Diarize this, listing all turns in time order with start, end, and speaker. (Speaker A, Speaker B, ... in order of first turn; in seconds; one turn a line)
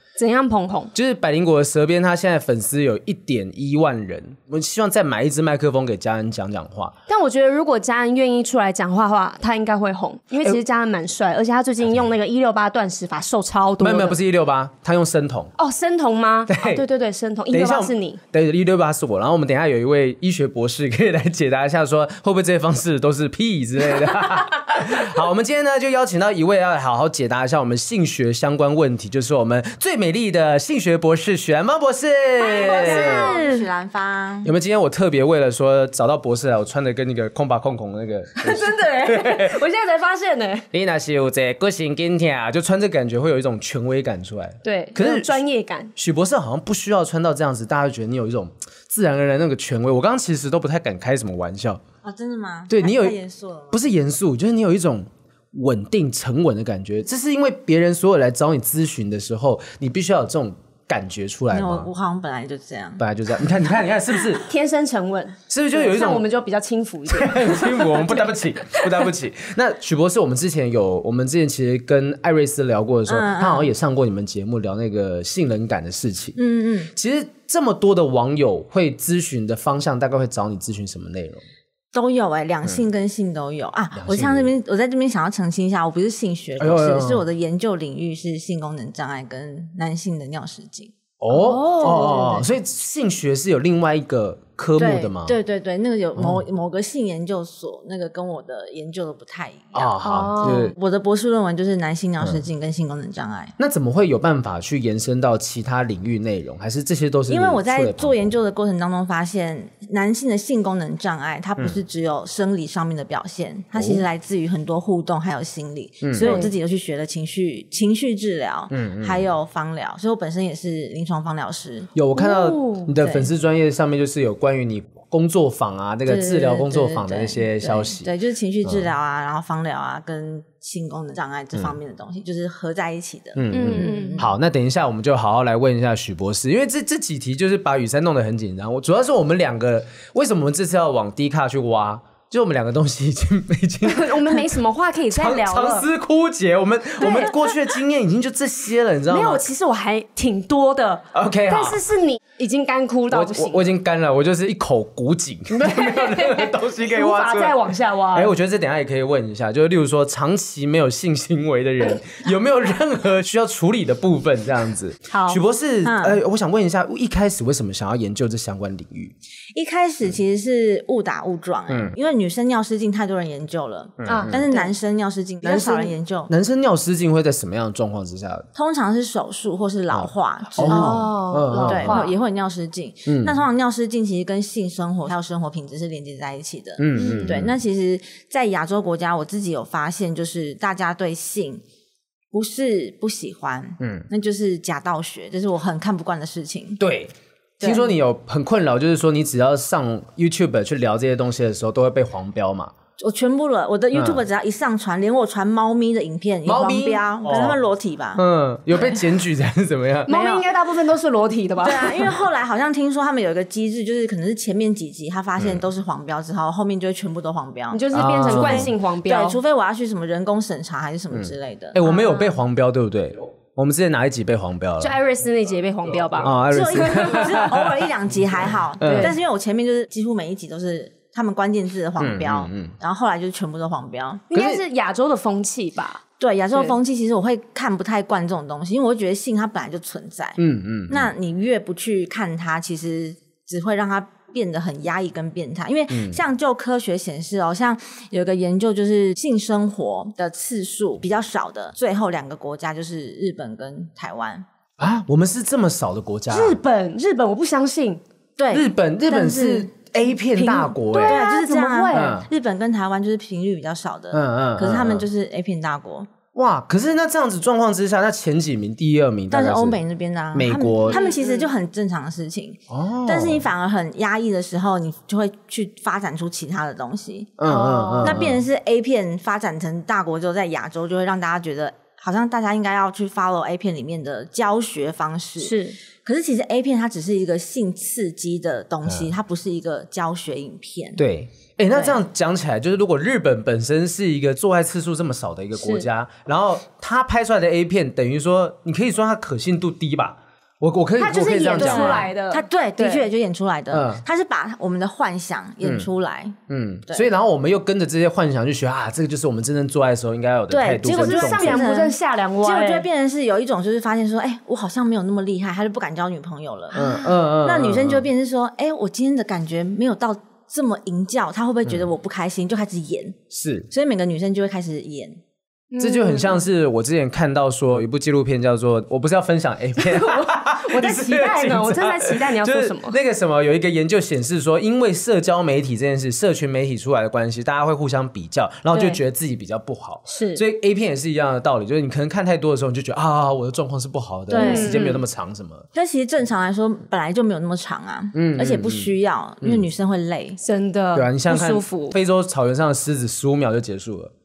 Speaker A: 0.2-0.9
Speaker B: 0.9-7.0
Speaker A: 7.1-14.2
Speaker B: 13.8-15.5
Speaker A: 15.6-18.2
Speaker B: 16.5-16.9
Speaker B: 17.5-33.3
Speaker C: 32.4-34.5
Speaker A: 32.5-33.7
Speaker B: 34.4-39.6
Speaker A: 38.4-40.7
Speaker B: 40.7-45.4
Speaker A: 44.6-45.9
Speaker B: 46.0-51.8
Speaker C: 52.0-53.8
Speaker B: 52.7-53.2
Speaker B: 53.7-61.9
Speaker C: 61.5-63.0
Speaker B: 63.0-64.5
Speaker A: 64.3-68.1
Speaker B: 65.5-66.3
Speaker B: 67.1-76.4
Speaker C: 73.1-73.7
Speaker C: 76.4-76.9
Speaker B: 76.9-81.4
Speaker C: 81.9-91.0
Speaker B: 84.0-84.5
Speaker B: 86.6-87.2
Speaker B: 91.2-95.3
Speaker A: 91.3-92.4
Speaker C: 91.5-92.5
Speaker C: 94.8-103.5
Speaker B: 96.2-96.4
Speaker B: 99.7-100.7
Speaker A: 100.0-100.7
Speaker B: 103.6-108.3
Speaker C: 107.3-121.9
Speaker B: 113.8-114.0
Speaker B: 116.0-116.4
Speaker A: 116.2-116.5
Speaker B: 118.7-119.2
Speaker B: 122.0-128.1
Speaker A: 122.2-122.9
Speaker C: 123.0-123.2
Speaker C: 126.1-134.3
Speaker B: 133.4-144.6
Speaker A: 133.5-134.2
Speaker A: 143.8-145.9
Speaker B: 145.1-149.4
Speaker A: 147.0-147.7
Speaker A: 149.1-153.7
Speaker B: 151.1-151.8
Speaker B: 153.1-169.2
Speaker A: 155.5-158.3
Speaker A: 165.1-165.4
Speaker C: 165.8-166.2
Speaker C: 169.6-176.3
Speaker B: 174.0-174.4
Speaker A: 174.1-174.7
Speaker B: 175.4-178.5
Speaker C: 178.6-191.6
Speaker B: 179.9-182.1
Speaker A: 180.7-182.1
Speaker B: 183.1-183.4
Speaker B: 186.8-187.5
Speaker A: 186.9-187.4
Speaker C: 192.3-196.8
Speaker B: 193.8-194.1
Speaker B: 196.8-202.7
Speaker C: 197.6-197.9
Speaker C: 203.0-209.0
Speaker B: 203.9-204.2
Speaker B: 206.4-207.6
Speaker B: 208.2-210.2
Speaker A: 210.1-212.2
Speaker C: 210.1-210.4
Speaker C: 211.6-222.2
Speaker A: 217.7-219.4
Speaker B: 217.9-218.7
Speaker B: 221.1-225.0
Speaker A: 224.8-227.4
Speaker B: 226.2-229.2
Speaker C: 226.5-234.3
Speaker A: 228.8-229.2
Speaker B: 232.0-232.8
Speaker A: 234.3-236.0
Speaker B: 234.3-234.6
Speaker C: 236.2-254.5
Speaker B: 240.4-241.1
Speaker B: 245.9-246.2
Speaker B: 254.8-256.6
Speaker A: 256.3-258.0
Speaker C: 258.4-259.7
Speaker B: 258.5-261.2
Speaker A: 260.4-262.2
Speaker C: 261.1-266.1
Speaker B: 261.9-262.3
Speaker B: 264.1-265.1
Speaker B: 266.3-269.8
Speaker C: 269.3-291.0
Speaker B: 270.3-271.1
Speaker A: 270.9-271.5
Speaker B: 272.7-273.5
Speaker B: 277.4-278.4
Speaker A: 277.5-278.2
Speaker A: 285.4-285.8
Speaker B: 288.9-289.1
Speaker B: 291.0-302.1
Speaker C: 291.7-292.0
Speaker A: 295.6-295.9
Speaker A: 301.0-303.1
Speaker C: 301.6-307.1
Speaker B: 303.7-304.0
Speaker B: 306.5-311.7
Speaker C: 310.5-323.2
Speaker A: 310.8-312.9
Speaker A: 316.7-317.2
Speaker B: 316.7-318.1
Speaker B: 323.3-323.7
Speaker C: 323.7-325.2
Speaker A: 325.7-326.4
Speaker B: 325.8-345.7
Speaker A: 329.8-333.0
Speaker A: 338.7-339.0
Speaker A: 340.1-340.4
Speaker C: 344.3-344.8
Speaker A: 344.4-345.0
Speaker C: 345.7-350.4
Speaker B: 348.1-348.9
Speaker A: 350.4-352.0
Speaker B: 350.9-354.1